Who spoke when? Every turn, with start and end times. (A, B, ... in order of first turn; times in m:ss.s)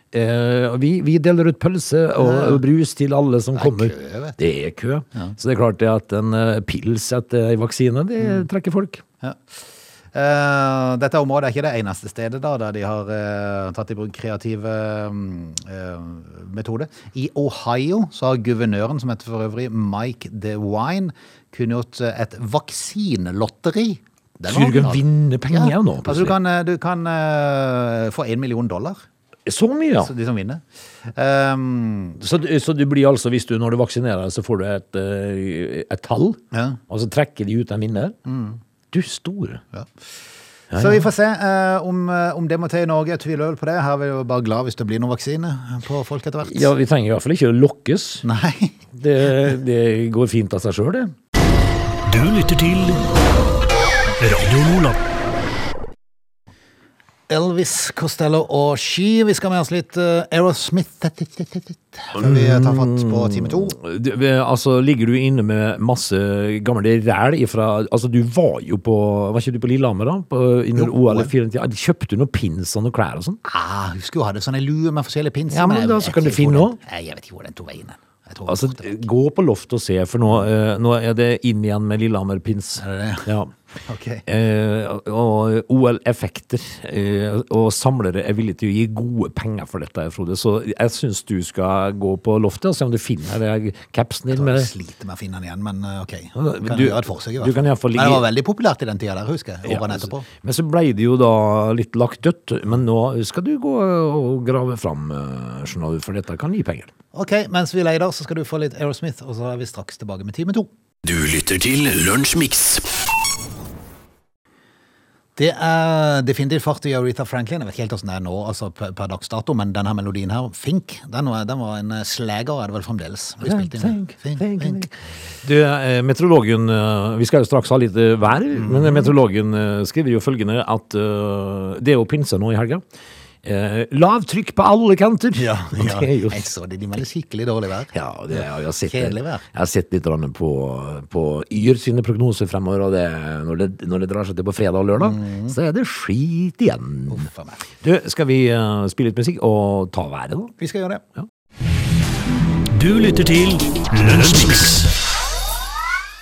0:00.1-0:09.0 A
0:02.2-0:02.6 B
0:03.6-0:04.4 B
0:09.2-0:09.6 B
0:10.1-0:29.0 B
0:24.5-0:26.4 A
0:29.5-0:30.1 A
0:30.0-0:32.2 B
0:32.2-0:38.2 A
0:36.5-0:36.8 B
0:38.3-0:38.6 B
0:38.9-0:39.6 A
0:40.7-0:41.1 A
0:40.7-0:46.7 B
0:46.4-0:48.2 A
0:48.2-0:48.8 B
0:48.9-0:51.1 A
0:52.0-0:53.1 C
0:54.2-0:55.0 C
0:57.3-1:03.8 B
1:02.2-1:13.4 A
1:10.8-1:11.3 B
1:13.4-1:19.0 B
1:15.5-1:16.8 A
1:18.5-1:23.5 A
1:22.8-1:23.3 B
1:23.8-1:24.3 B
1:24.3-1:34.7 A
1:34.3-1:40.3 B
1:36.4-1:38.3 A
1:39.6-1:46.9 A
1:47.1-1:50.7 B
1:51.0-1:52.9 C
1:55.4-2:04.8 B
2:03.4-2:12.8 A
2:08.6-2:09.1 B
2:13.4-2:16.4 A
2:15.4-2:19.4 B
2:17.9-2:27.3 A
2:25.0-2:25.6 B
2:27.1-2:27.6 B
2:27.8-2:30.5 A
2:30.6-2:31.0 B
2:32.7-2:34.9 C